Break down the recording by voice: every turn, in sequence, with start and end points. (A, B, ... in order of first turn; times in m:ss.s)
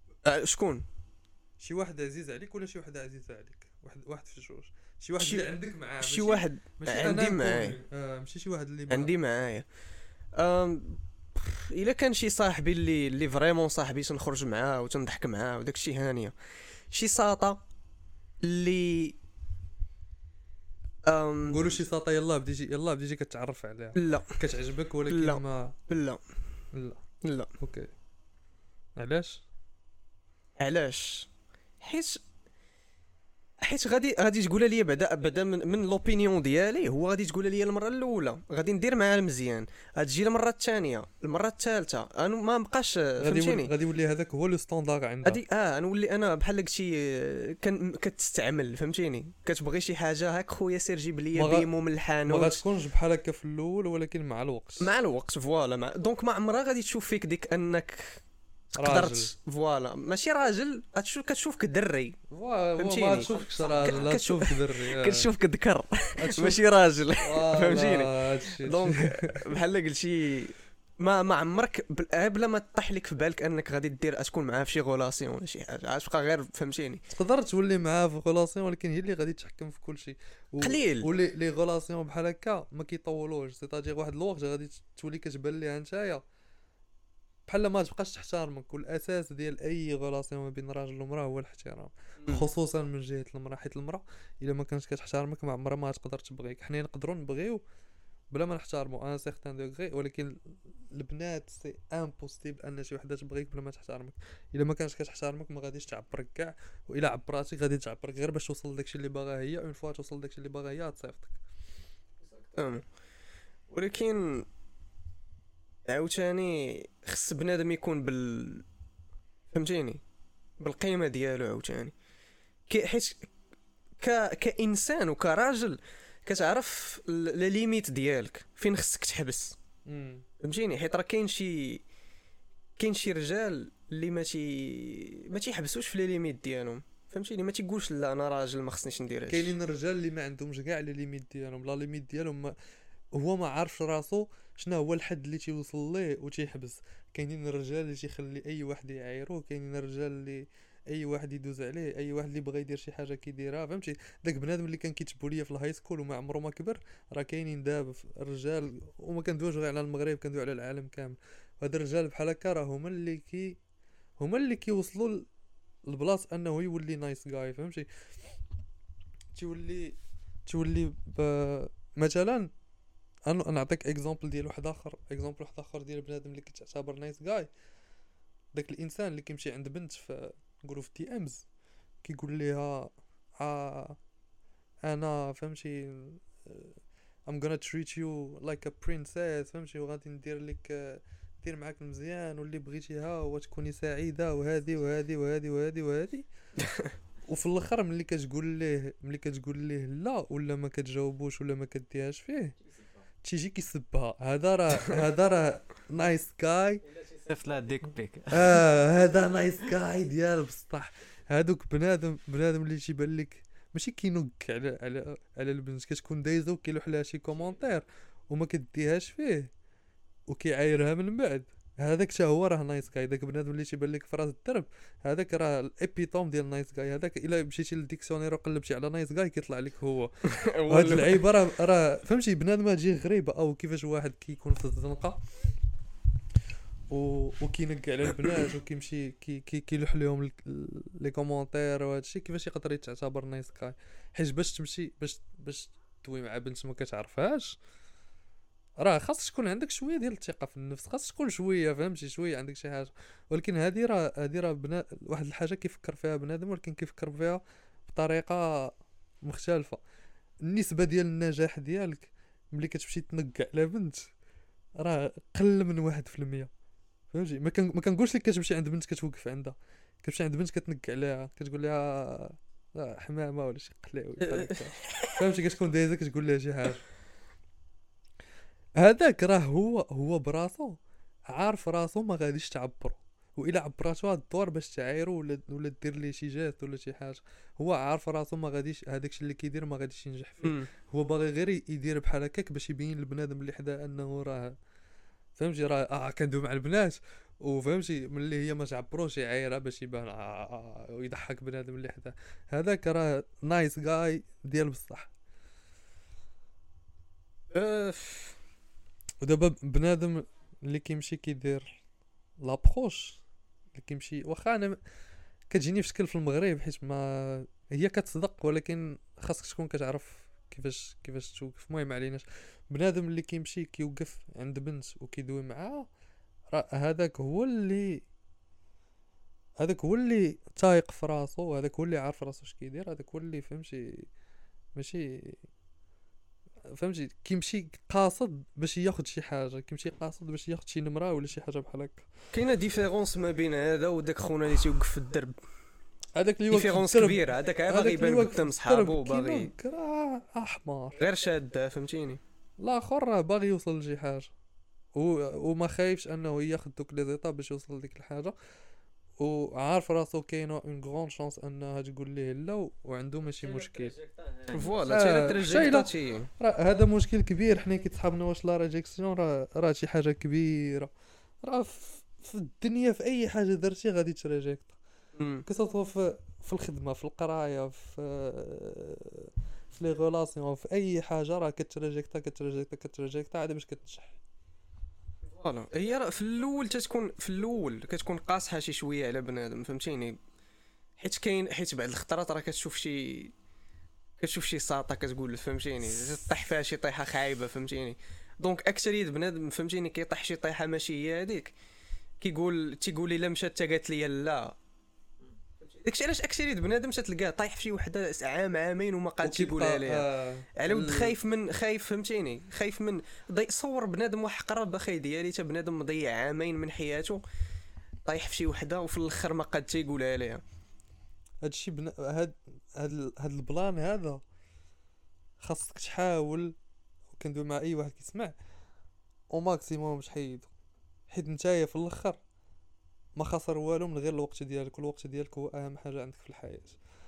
0:00.2-0:00.8 A
0:01.6-0:09.1 B
0:05.2-0:05.5 A
0:06.0-0:07.8 A
0:08.9-0:09.6 A
0:10.4-0:16.3 A
0:16.9-0:17.6 A
0:18.4-0:19.2 A
0:21.0-0:21.6 A
0:21.5-0:25.7 B
0:24.0-0:24.3 A
0:25.1-0:26.2 A
0:26.7-0:27.0 B
0:27.2-0:27.5 A
0:27.6-0:27.9 B
0:29.0-0:29.4 B
0:30.6-0:31.3 A
0:31.8-0:32.2 A
0:33.6-0:43.7 A
0:43.2-0:45.4 B
0:45.2-0:52.6 A
0:51.3-0:51.7 B
0:52.3-0:54.9 B
0:54.8-0:58.2 A
0:58.7-1:02.2 A
0:58.8-0:59.3 B
1:02.3-1:05.3 B
1:02.8-1:17.0 A
1:06.2-1:06.6 B
1:07.2-1:09.4 B
1:17.1-1:26.2 B
1:20.6-1:21.1 A
1:27.5-1:37.6 B
1:32.2-1:32.5 A
1:38.3-1:40.3 B
1:40.9-1:51.4 B
1:52.4-1:52.8 A
1:53.7-1:54.5 A
1:55.8-1:58.6 A
1:59.5-2:00.0 A
2:00.6-2:01.9 A
2:02.7-2:03.3 A
2:04.0-2:09.6 A
2:09.9-2:10.2 B
2:10.4-2:11.8 A
2:12.8-2:19.5 A
2:19.3-2:22.5 B
2:23.1-2:43.6 B
2:44.2-2:45.3 B
2:45.8-2:47.9 B
2:49.3-2:52.5 B
2:53.3-2:57.5 B
2:58.5-3:01.5 B
3:02.0-3:04.0 B
3:04.8-3:16.3 B
3:16.6-3:16.9 A
3:17.3-3:22.6 B
3:23.2-3:26.8 B
3:27.2-3:28.6 C
3:28.3-3:39.5 B
3:40.3-3:55.2 B
3:50.3-3:51.3 A
3:56.9-4:07.6 B
4:08.8-4:18.7 B
4:19.2-4:19.8 B
4:20.5-4:24.1 B
4:24.8-4:26.5 B
4:27.1-4:36.8 B
4:34.2-4:35.1 A
4:38.8-4:40.8 B
4:41.3-4:54.5 B
4:50.4-4:50.7 A
4:55.4-5:05.1 B
5:07.5-5:08.4 A
5:09.2-5:11.8 B
5:12.4-5:13.2 B
5:13.8-5:14.8 B
5:15.5-5:25.9 B
5:26.5-5:28.0 B
5:29.6-5:34.1 B
5:34.8-5:35.4 B
5:36.8-5:42.1 B
5:42.3-5:45.3 A
5:46.2-5:51.0 B
5:46.5-5:49.5 A
5:51.0-5:52.2 A
5:52.6-5:54.3 B
5:54.9-5:58.3 B
5:59.2-6:04.0 B
6:03.4-6:04.8 C
6:04.5-6:06.3 A
6:04.9-6:10.9 B
6:11.4-6:14.8 B
6:15.2-6:15.4 A
6:15.4-6:24.2 B
6:25.2-6:30.2 A
6:31.0-6:33.3 A
6:34.2-6:41.5 A
6:42.2-6:44.5 A
6:45.6-6:50.0 A
6:49.2-6:51.2 B
6:50.6-6:57.2 A
6:58.0-7:00.4 A
7:01.4-7:04.2 B
7:05.4-7:06.5 B
7:07.2-7:08.3 B
7:09.3-7:10.5 B
7:11.1-7:12.2 B
7:13.2-7:16.8 B